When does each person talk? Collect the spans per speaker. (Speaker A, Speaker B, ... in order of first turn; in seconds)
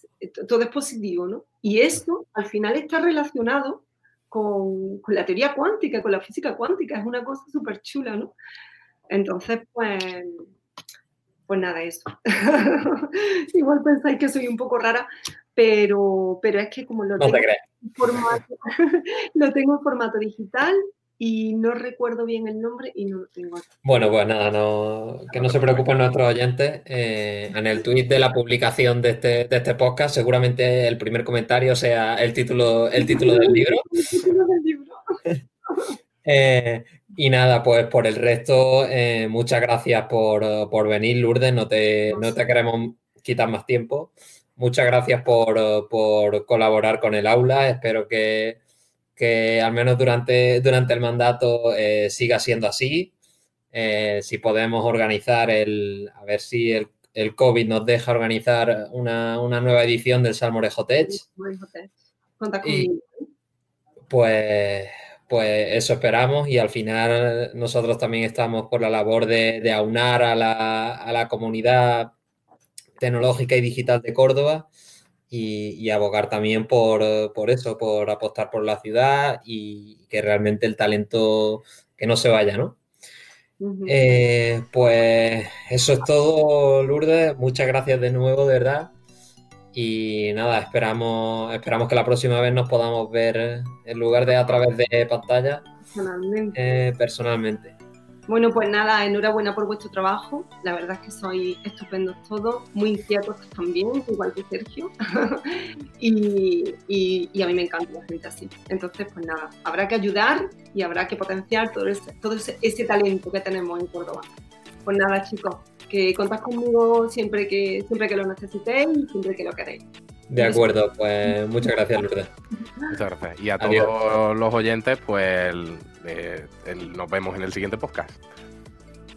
Speaker A: 0.2-8.3, 9.1-10.5, 11.5-24.1, 25.3-25.8, 33.0-35.2, 61.0-63.2, 83.6-84.0, 95.9-96.6, 98.3-114.3, 114.8-119.8, 120.4-120.7, 121.2-121.7
Speaker B: 17.2-17.6, 23.8-34.0, 36.2-48.6, 49.1-53.1, 53.7-61.2, 62.6-62.9, 64.1-72.1, 73.0-74.7, 75.3-82.8, 83.8-88.9, 89.7-95.7, 96.5-97.7, 120.3-122.3, 123.6-123.9
Speaker C: 122.9-128.2